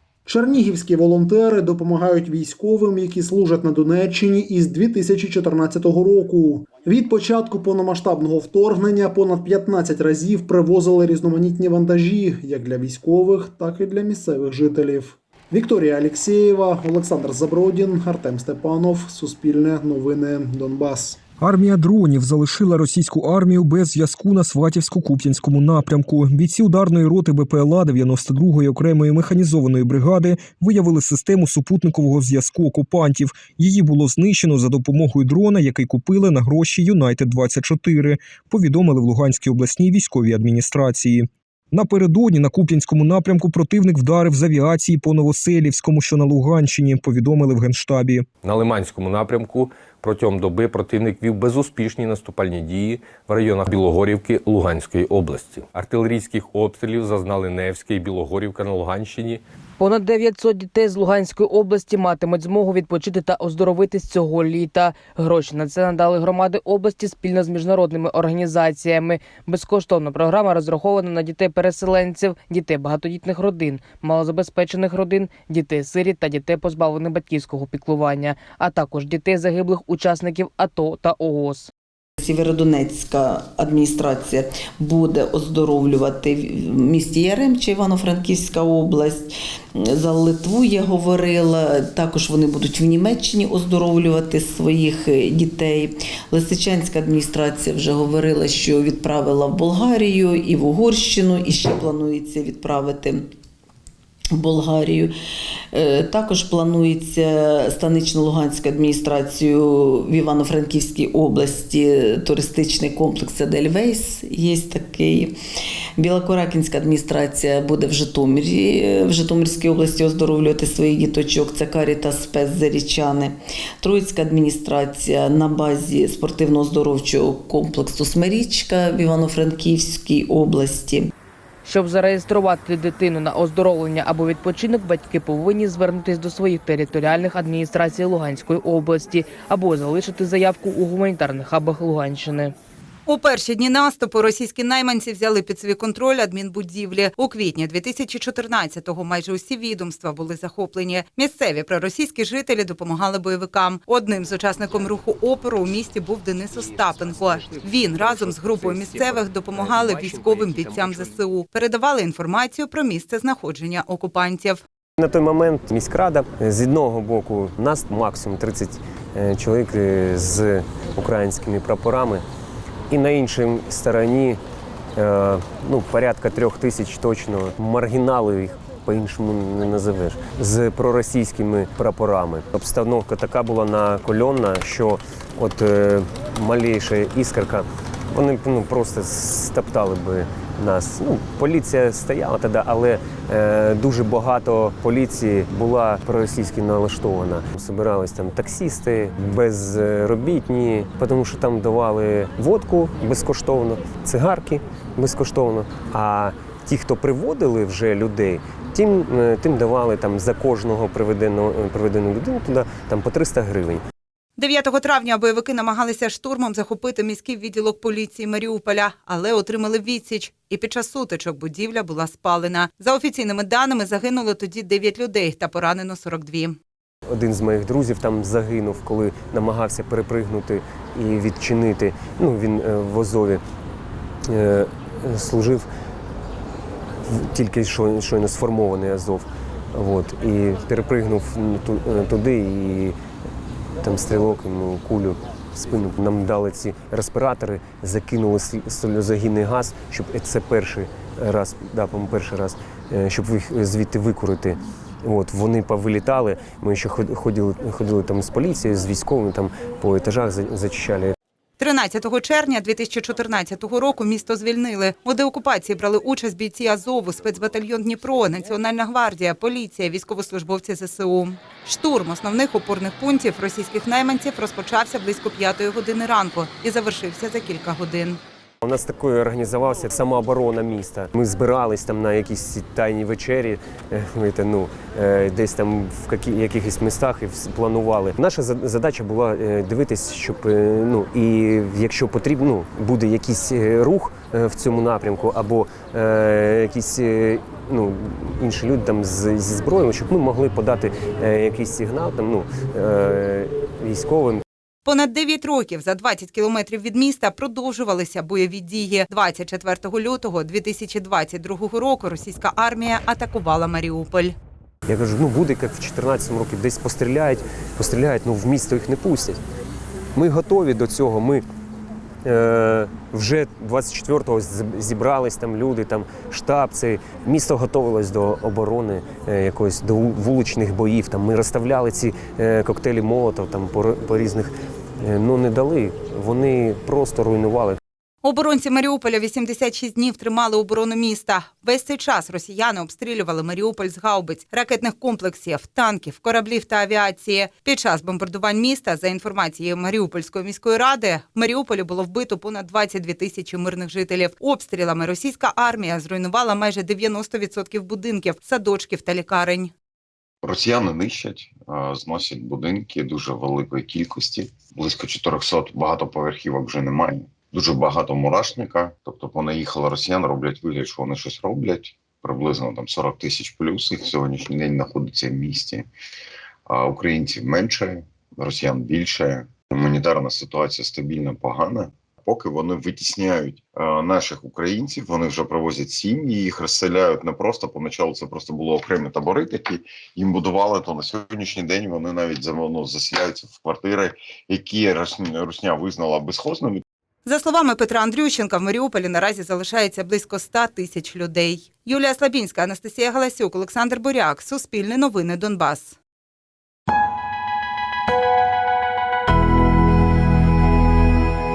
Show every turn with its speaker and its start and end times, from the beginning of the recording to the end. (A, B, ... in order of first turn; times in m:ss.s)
0:00.2-0:21.2 A
0:21.4-0:48.3 B
0:48.4-0:59.4 C
0:59.8-1:21.7 D
1:22.2-1:43.3 E
1:44.3-1:45.1 E
1:45.7-1:55.4 E
1:56.0-2:11.1 E
2:11.6-2:22.5 D
2:23.1-2:44.6 F
2:45.0-2:52.2 G
2:52.9-2:54.4 G
2:55.0-3:33.8 G
3:34.4-3:46.6 F
3:47.1-3:53.4 G
3:54.3-3:55.7 G
3:57.1-4:03.0 G
4:03.8-4:21.1 G
4:21.6-4:38.2 F
4:38.6-5:04.4 G
5:04.8-5:14.3 F
5:14.9-5:19.4 G
5:20.1-5:21.4 G
5:22.2-5:37.8 G
5:38.2-5:59.7 F
6:00.4-6:15.8 H
6:16.7-6:36.8 H
6:37.2-6:46.0 F